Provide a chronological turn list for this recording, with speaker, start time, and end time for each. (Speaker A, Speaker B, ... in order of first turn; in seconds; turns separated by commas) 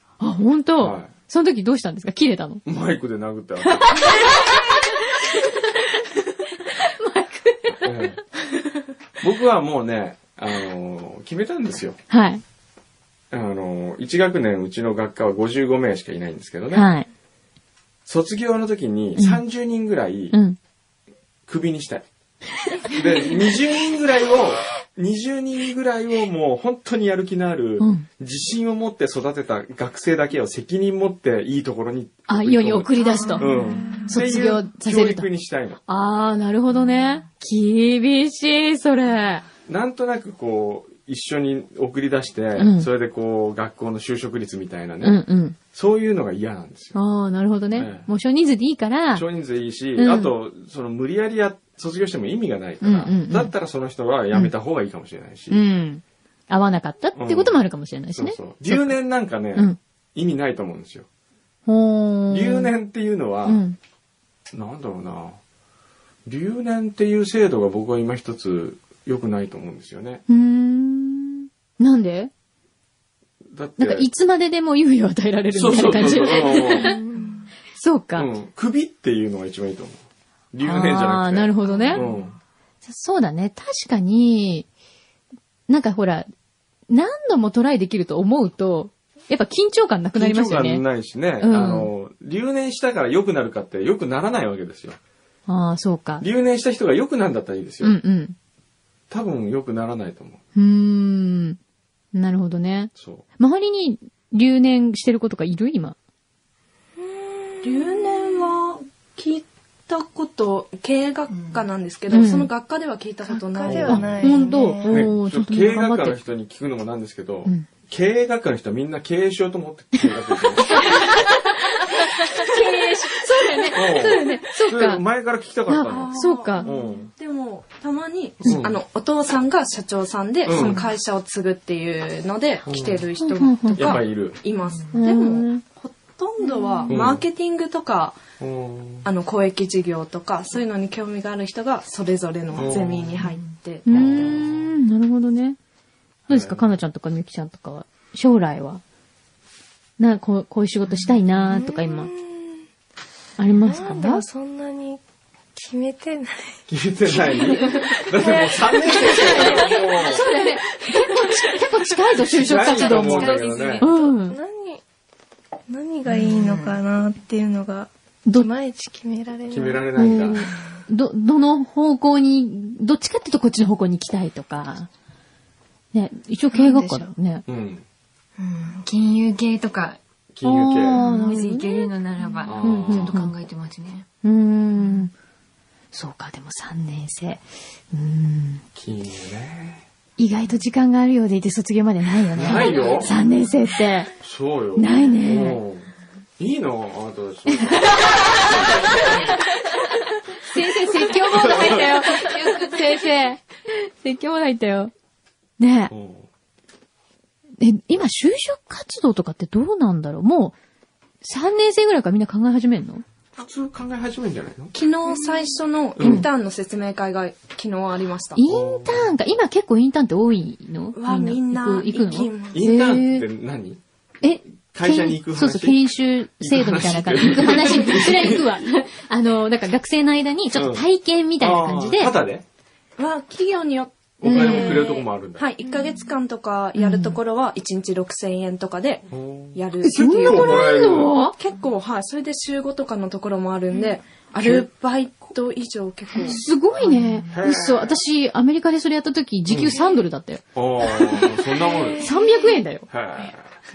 Speaker A: 0.2-2.6, Speaker B: 0.8-1.1, Speaker B: 2.6-4.2, Speaker A: 3.7-5.6, Speaker A: 6.6-8.1, Speaker B: 7.8-8.2, Speaker B: 9.2-12.0, Speaker A: 12.1-12.4, Speaker B: 13.3-16.9, Speaker A: 16.7-17.1, Speaker B: 18.1-20.3, Speaker A: 19.2-19.4, Speaker A: 20.3-20.6, Speaker B: 21.5-22.1, Speaker B: 22.9-35.8, Speaker A: 27.8-28.1, Speaker A: 32.3-33.5, Speaker C: 33.2-34.0, Speaker D: 33.3-34.1, Speaker A: 34.1-35.3, Speaker A: 35.9-39.4, Speaker B: 39.6-45.2, Speaker A: 42.6-42.9, Speaker A: 45.0-45.6, Speaker B: 45.7-47.0, Speaker A: 46.9-49.2, Speaker B: 47.7-48.1, Speaker B: 49.1-55.6, Speaker A: 50.0-50.3, Speaker A: 52.8-53.5, Speaker A: 55.5-59.0, Speaker B: 57.1-57.6, Speaker B: 58.1-61.1, Speaker A: 61.6-62.7, Speaker B: 62.3-63.6, Speaker A: 63.5-63.8, Speaker B: 64.5-65.4, Speaker B: 66.2-70.2, Speaker A: 70.3-72.3, Speaker B: 73.5-74.1, Speaker A: 73.8-77.0, Speaker B: 75.5-77.0, Speaker D: 76.3-77.5, Speaker A: 77.7-78.3, Speaker B: 78.2-80.0, Speaker B: 80.5-82.3, Speaker A: 80.6-82.0, Speaker D: 81.7-82.1, Speaker A: 82.8-84.7, Speaker A: 85.7-86.3, Speaker A: 86.9-90.8, Speaker B: 90.2-95.0, Speaker A: 91.4-91.9, Speaker A: 95.5-96.2, Speaker B: 96.2-98.0, Speaker A: 97.8-98.3, Speaker B: 99.1-100.4, Speaker A: 100.5-101.6, Speaker A: 102.1-106.0, Speaker B: 103.0-103.2, Speaker D: 107.0-108.5, Speaker E: 107.6-114.2, Speaker A: 112.1-112.5, Speaker D: 113.3-115.1, Speaker B: 113.6-114.2, Speaker A: 113.8-116.2, Speaker B: 114.8-120.9, Speaker A: 120.0-125.0, Speaker B: 123.7-127.1, Speaker A: 125.7-126.7, Speaker E: 125.8-138.2, Speaker B: 128.4-128.8, Speaker B: 130.4-130.9, Speaker B: 132.7-133.1, Speaker A: 133.2-134.0, Speaker B: 133.8-134.4, Speaker A: 134.9-135.6, Speaker A: 136.6-136.9, Speaker B: 136.9-137.2, Speaker B: 138.4-139.1, Speaker E: 139.0-144.4, Speaker B: 142.5-143.3, Speaker A: 143.8-145.6, Speaker B: 143.9-144.7, Speaker A: 146.3-148.8, Speaker B: 146.3-146.7, Speaker A: 150.0-152.1, Speaker D: 151.5-152.6, Speaker A: 153.4-154.2, Speaker D: 153.6-155.0, Speaker D: 155.5-160.4, Speaker B: 156.7-160.2, Speaker A: 158.9-164.4, Speaker D: 160.9-161.5, Speaker B: 162.2-163.9, Speaker C: 162.5-163.9, Speaker D: 164.1-164.8, Speaker D: 165.7-169.8, Speaker C: 166.1-166.8, Speaker B: 169.5-170.5, Speaker A: 169.9-174.9, Speaker A: 175.9-177.4, Speaker D: 176.5-177.1, Speaker B: 177.5-177.8, Speaker C: 178.4-180.0, Speaker B: 180.3-181.0, Speaker A: 180.4-181.9, Speaker C: 180.9-184.1, Speaker B: 182.4-183.2, Speaker A: 182.6-183.3, Speaker A: 184.2-185.1, Speaker A: 185.9-188.6, Speaker B: 188.7-189.8, Speaker A: 190.2-194.1, Speaker B: 192.3-193.1, Speaker B: 194.2-199.4, Speaker A: 194.8-195.6, Speaker A: 197.5-199.1, Speaker A: 200.3-204.9, Speaker B: 201.2-202.0, Speaker A: 205.6-205.9, Speaker B: 205.9-206.3, Speaker A: 207.6-210.6, Speaker A: 211.2-213.0, Speaker B: 213.4-214.7, Speaker E: 214.7-218.4, Speaker B: 216.0-216.2, Speaker A: 216.0-216.3, Speaker A: 218.3-223.3, Speaker B: 218.4-219.1, Speaker E: 220.9-222.6, Speaker B: 222.5-223.8, Speaker A: 224.2-232.1, Speaker B: 224.7-225.8, Speaker B: 226.4-228.6, Speaker B: 230.5-230.8, Speaker B: 231.4-232.4, Speaker E: 233.0-246.4, Speaker B: 234.2-235.5, Speaker A: 234.2-234.9, Speaker A: 236.8-237.2, Speaker B: 239.1-241.1, Speaker A: 239.8-241.3, Speaker B: 244.4-244.7, Speaker A: 246.2-250.4, Speaker B: 247.3-248.0, Speaker B: 249.5-249.8, Speaker B: 250.5-252.1, Speaker D: 251.0-252.3, Speaker A: 252.0-252.9, Speaker B: 252.9-253.4